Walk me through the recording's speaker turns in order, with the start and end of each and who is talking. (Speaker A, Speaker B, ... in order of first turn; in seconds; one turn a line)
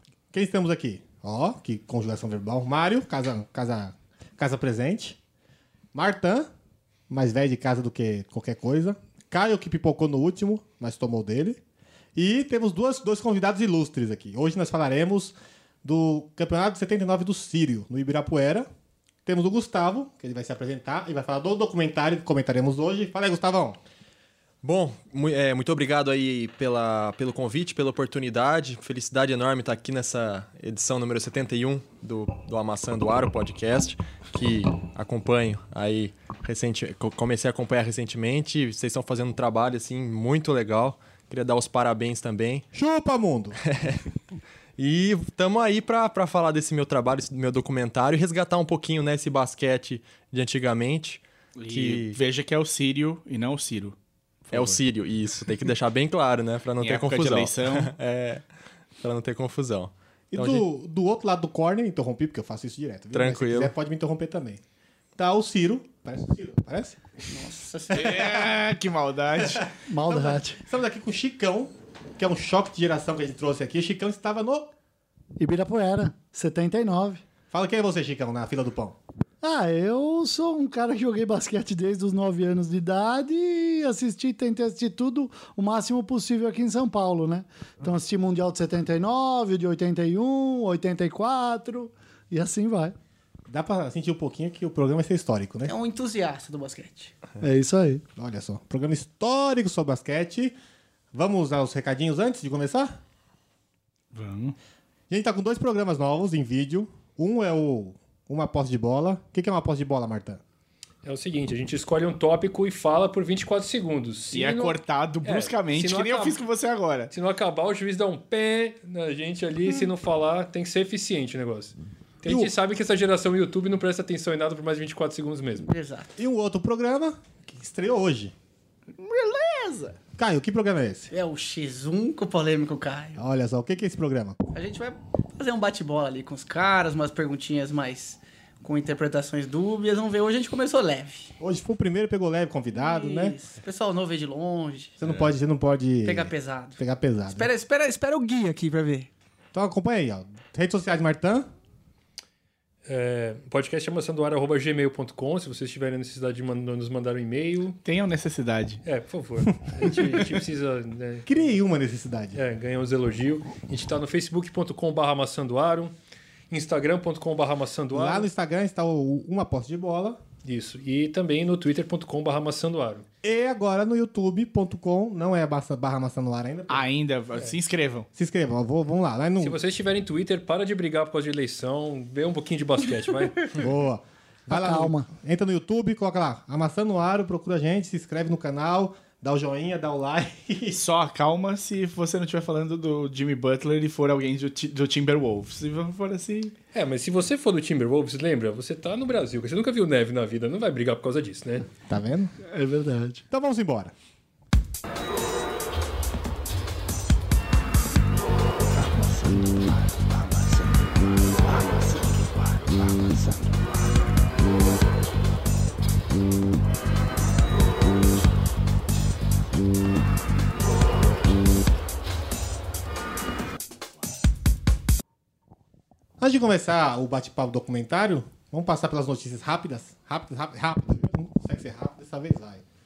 Speaker A: 0.3-5.2
Speaker A: 5.9-6.5
Speaker A: 7.1-11.6
Speaker A: 12.1-18.7
Speaker A: 19.2-23.8
Speaker B: 24.6-42.6
Speaker A: 42.7-43.6
Speaker B: 43.6-44.0
Speaker B: 44.8-52.2
Speaker C: 51.5-54.0
Speaker C: 54.5-54.8
Speaker B: 54.5-58.4
Speaker C: 56.8-57.9
Speaker B: 59.0-60.6
Speaker A: 60.3-64.6
Speaker B: 63.1-63.7
Speaker A: 65.2-67.0
Speaker D: 67.3-68.5
Speaker C: 67.9-69.7
Speaker A: 69.6-74.7
Speaker E: 69.9-70.6
Speaker E: 75.4-77.2
Speaker A: 77.5-79.0
Speaker E: 79.4-92.9
Speaker A: 93.5-95.7
Speaker D: 95.6-97.1
Speaker E: 97.4-98.0
Speaker A: 98.2-100.5
Speaker A: 101.1-103.0
Speaker C: 104.1-104.5
Speaker A: 105.1-110.4
Speaker F: 111.0-116.4
Speaker C: 114.3-117.1
Speaker F: 117.1-125.7
Speaker A: 122.2-122.5
Speaker D: 125.7-126.1
Speaker A: 126.2-128.3
Speaker C: 128.9-130.0
Speaker A: 130.2-131.1
Speaker D: 131.1-133.2
Speaker A: 133.2-134.4
Speaker D: 134.5-141.3
Speaker A: 141.4-143.4
Speaker D: 142.7-145.0
Speaker A: 145.0-147.5
Speaker D: 146.0-149.1
Speaker A: 149.5-151.5
Speaker F: 152.8-157.8
Speaker C: 157.8-158.8
Speaker F: 158.8-161.5
Speaker A: 159.8-160.2
Speaker A: 161.2-162.4
Speaker F: 162.3-165.9
Speaker F: 166.5-168.3
Speaker A: 167.9-170.2
Speaker F: 170.4-173.0
Speaker A: 173.2-176.9
Speaker C: 176.7-178.1
Speaker A: 178.1-179.6
Speaker F: 179.4-183.5
Speaker A: 183.6-190.8
Speaker E: 184.5-185.1
Speaker C: 190.7-196.5
Speaker F: 196.7-201.7
Speaker A: 201.9-202.3
Speaker E: 202.4-203.2
Speaker A: 203.3-203.9
Speaker C: 208.8-210.7
Speaker C: 211.2-213.5
Speaker A: 226.2-232.6